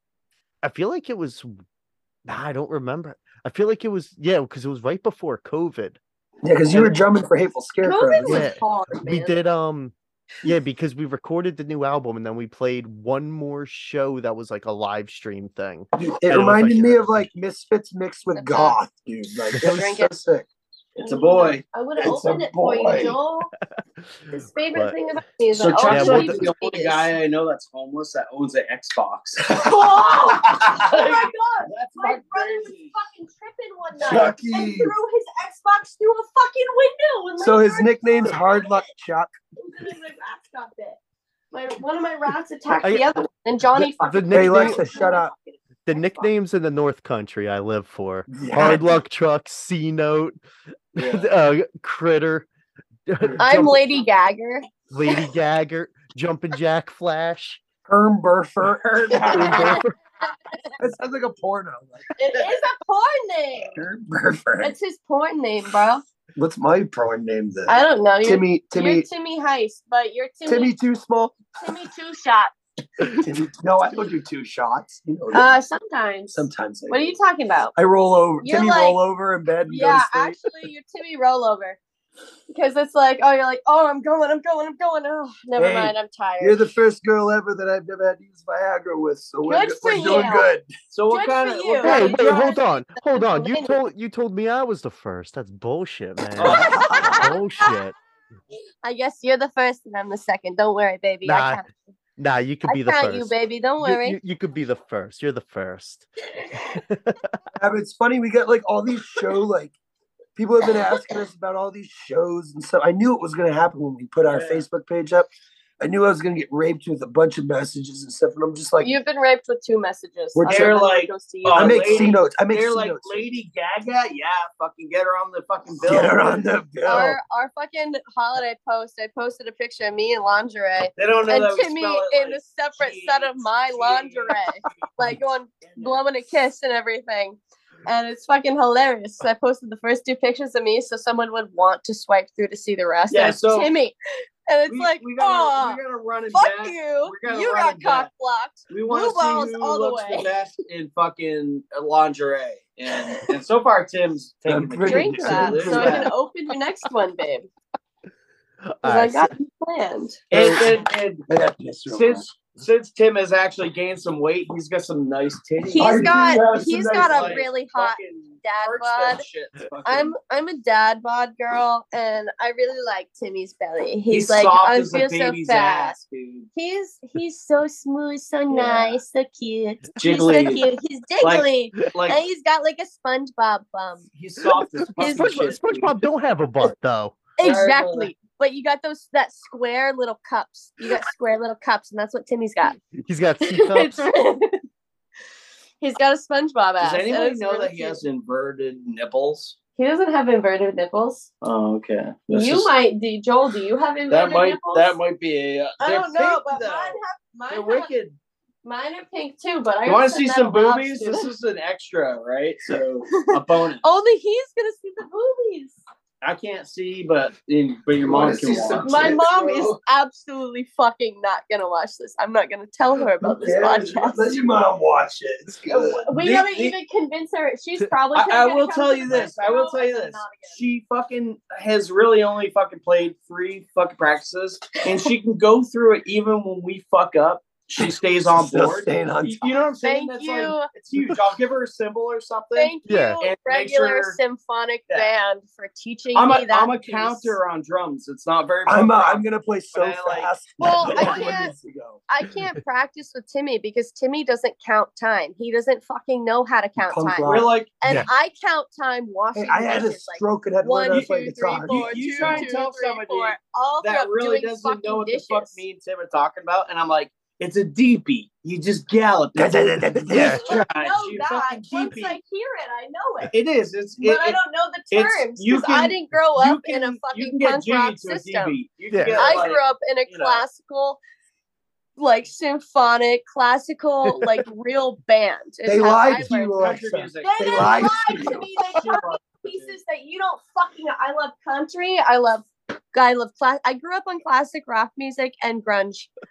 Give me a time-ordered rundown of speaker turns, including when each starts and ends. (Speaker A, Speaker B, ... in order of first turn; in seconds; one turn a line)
Speaker A: 0.6-1.5
Speaker A: 2.3-6.0
Speaker B: 6.4-8.5
Speaker C: 7.8-9.4
Speaker A: 8.2-17.2
Speaker B: 16.0-20.5
Speaker C: 18.3-18.8
Speaker C: 19.6-20.1
Speaker D: 21.0-21.6
Speaker C: 21.0-23.5
Speaker B: 22.0-23.2
Speaker C: 24.3-27.1
Speaker D: 25.6-29.5
Speaker A: 25.8-26.4
Speaker C: 29.5-38.9
Speaker B: 29.5-30.8
Speaker D: 30.6-32.9
Speaker B: 34.0-34.9
Speaker B: 37.4-39.3
Speaker C: 39.6-41.0
Speaker C: 41.5-45.3
Speaker A: 42.7-43.1
Speaker A: 43.8-44.8
Speaker B: 44.3-45.3
Speaker A: 45.9-50.4
Speaker C: 45.9-46.2
Speaker B: 48.3-49.0
Speaker A: 51.0-52.5
Speaker D: 51.0-51.3
Speaker A: 53.1-53.8
Speaker C: 53.4-55.2
Speaker A: 54.9-57.6
Speaker B: 57.9-59.8
Speaker C: 59.1-60.8
Speaker A: 59.3-60.0
Speaker B: 60.8-62.1
Speaker C: 62.2-63.8
Speaker B: 63.6-64.7
Speaker C: 64.6-66.0
Speaker B: 66.4-69.1
Speaker C: 67.7-70.7
Speaker B: 70.5-71.5
Speaker C: 71.6-72.5
Speaker B: 73.2-75.5
Speaker C: 75.3-77.8
Speaker B: 76.3-77.2
Speaker B: 77.8-80.4
Speaker C: 78.4-79.0
Speaker C: 79.7-81.8
Speaker C: 82.5-86.6
Speaker B: 85.6-90.7
Speaker C: 89.5-90.5
Speaker D: 90.9-92.5
Speaker C: 91.1-93.8
Speaker A: 91.8-98.0
Speaker D: 96.4-97.2
Speaker C: 96.5-97.7
Speaker B: 96.9-97.2
Speaker C: 98.8-101.7
Speaker A: 101.2-101.6
Speaker A: 102.2-106.1
Speaker C: 102.7-104.2
Speaker A: 106.6-107.2
Speaker B: 107.6-109.8
Speaker B: 110.4-115.3
Speaker D: 114.3-114.6
Speaker B: 115.8-118.9
Speaker C: 118.8-122.1
Speaker B: 120.3-120.7
Speaker D: 120.5-126.4
Speaker B: 121.5-123.2
Speaker B: 125.8-127.2
Speaker C: 126.8-143.9
Speaker D: 131.0-136.0
Speaker D: 143.1-143.7
Speaker C: 144.5-145.8
Speaker D: 144.7-148.1
Speaker C: 146.3-150.3
Speaker D: 148.7-156.1
Speaker B: 154.5-156.1
Speaker C: 154.8-157.5
Speaker A: 158.7-159.3
Speaker C: 158.8-160.2
Speaker D: 160.3-161.2
Speaker A: 160.3-160.7
Speaker B: 161.3-162.3
Speaker D: 161.9-166.2
Speaker C: 165.7-169.2
Speaker B: 165.8-167.4
Speaker D: 166.9-170.1
Speaker C: 169.8-176.0
Speaker D: 174.1-176.5
Speaker C: 176.6-184.1
Speaker D: 178.5-179.0
Speaker D: 180.0-180.6
Speaker D: 181.2-182.2
Speaker D: 184.2-186.0
Speaker A: 185.0-187.2
Speaker C: 185.0-185.4
Speaker C: 187.4-192.8
Speaker D: 187.4-188.1
Speaker A: 193.0-194.1
Speaker C: 193.4-194.6
Speaker C: 195.8-198.0
Speaker D: 196.8-199.6
Speaker C: 199.8-201.3
Speaker D: 201.4-202.7
Speaker C: 202.3-205.0
Speaker D: 204.1-207.0
Speaker C: 205.8-207.9
Speaker D: 207.5-208.2
Speaker C: 208.6-211.3
Speaker D: 209.8-213.8
Speaker C: 213.1-215.8
Speaker D: 216.2-219.2
Speaker B: 218.0-219.8
Speaker C: 218.8-224.3
Speaker B: 223.2-226.1
Speaker D: 225.7-226.8
Speaker C: 226.0-230.6
Speaker D: 228.1-244.2
Speaker B: 237.8-239.6
Speaker C: 239.8-240.7
Speaker C: 242.6-247.4
Speaker A: 242.9-243.2
Speaker D: 246.2-250.3
Speaker B: 248.7-252.0
Speaker C: 250.6-251.5
Speaker C: 252.1-265.6
Speaker B: 256.8-258.0
Speaker D: 257.2-257.7
Speaker B: 259.4-262.5
Speaker D: 261.6-272.2
Speaker B: 269.4-270.5
Speaker A: 270.1-270.5
Speaker C: 270.1-273.3
Speaker D: 273.3-274.4
Speaker C: 274.0-278.6
Speaker D: 274.9-280.4
Speaker A: 278.9-279.4
Speaker C: 279.1-281.0
Speaker C: 282.0-286.6
Speaker B: 285.6-288.5
Speaker D: 286.5-289.8
Speaker C: 287.2-296.1